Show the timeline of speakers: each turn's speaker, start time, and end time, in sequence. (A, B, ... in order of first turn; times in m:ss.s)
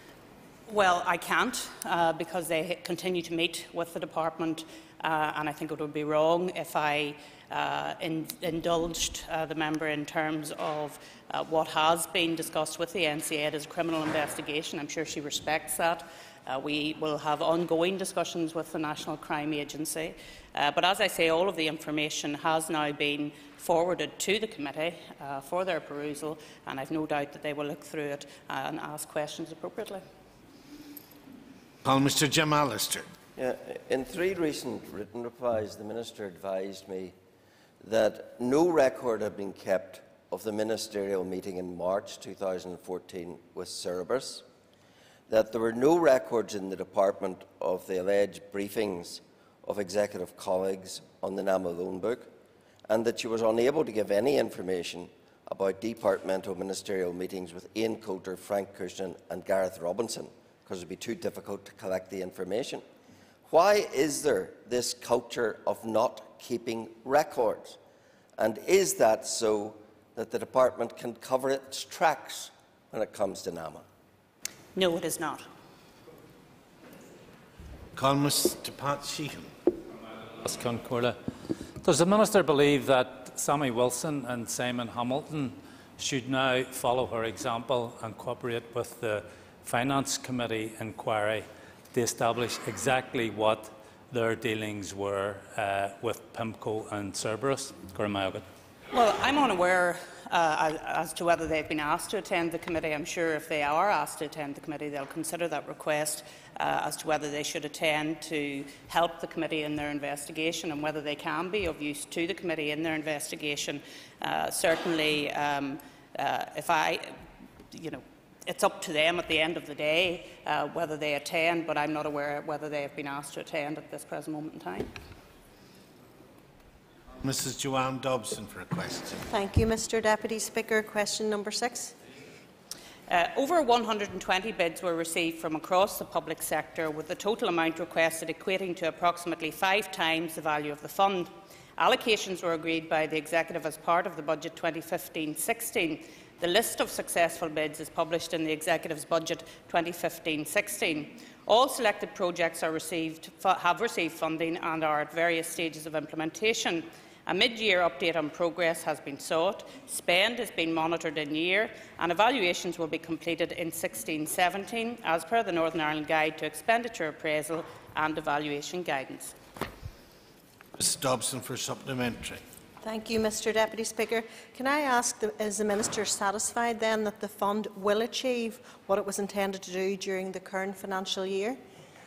0:00.7-0:30.0 A
0:31.8-0:33.0 B
0:33.4-0:37.2 C
0:37.8-0:44.4 C
0:45.3-0:52.3 C
0:52.9-1:02.8 C
1:03.5-1:07.8 C
1:08.4-1:13.8 C
1:14.7-1:15.5 A
1:17.9-1:19.5 B
1:20.4-1:21.2 D
1:21.8-1:38.4 D
1:38.9-1:57.2 A
1:57.7-2:04.9 A
2:07.2-2:09.2 B
2:09.3-2:11.9 E
2:13.1-2:49.3 A
2:50.8-2:52.4 B
2:52.8-3:01.6 E